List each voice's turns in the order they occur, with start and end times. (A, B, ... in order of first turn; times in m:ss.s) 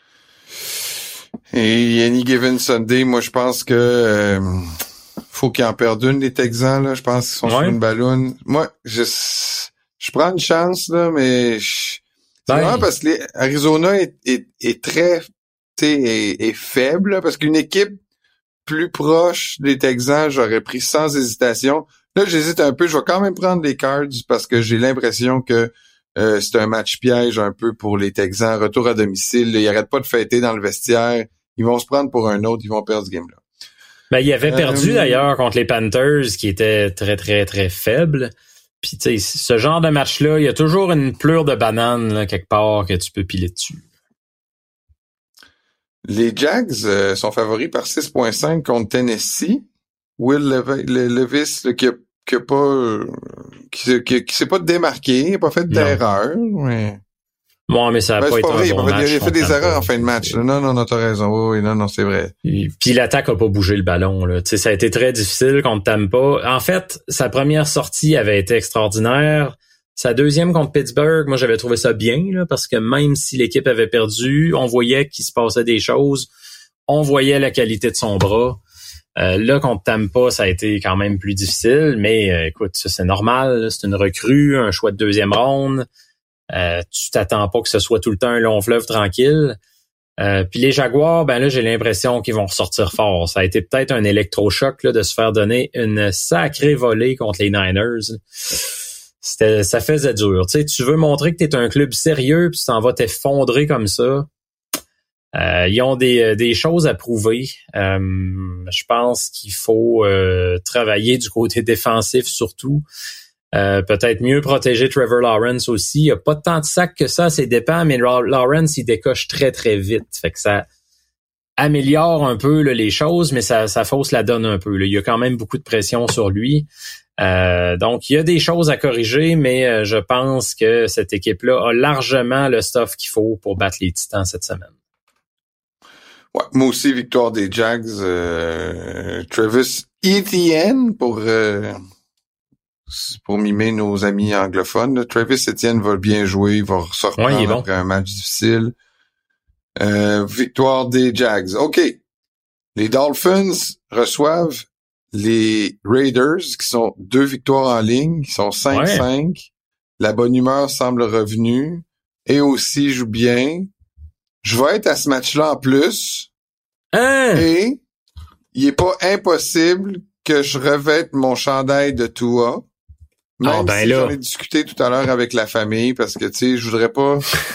0:01.5-0:04.8 A
0:05.3-0:18.0 A
0:07.4-0:07.8 B
0:12.5-0:12.8 B
0:18.6-0:33.4 A
0:34.1-0:43.8 B
0:34.4-0:35.2 A
0:46.0-0:49.6 A
0:50.2-0:57.0 A
0:55.7-0:56.0 B
0:57.7-1:00.4 B
0:58.2-1:02.3 A
1:02.4-1:16.3 B
1:16.9-1:18.6 B
1:19.2-1:25.8 B
1:26.5-1:29.6 B
1:30.2-1:38.2 B
1:39.2-1:44.3 B
1:45.3-1:52.8 B
1:53.5-2:00.7 B
2:01.6-2:06.7 B
2:07.2-2:14.7 B
2:16.3-2:21.8 A
2:22.9-2:28.7 A
2:27.2-2:27.6 B
2:29.8-2:32.0 A
2:32.7-2:39.5 A
2:38.7-2:39.0 B
2:40.0-2:43.7 A
2:44.4-2:46.3 A
2:46.9-2:47.5 B
2:47.3-2:47.8 A
2:48.5-2:52.6 A
2:53.4-2:57.3 A
2:53.4-2:54.1 B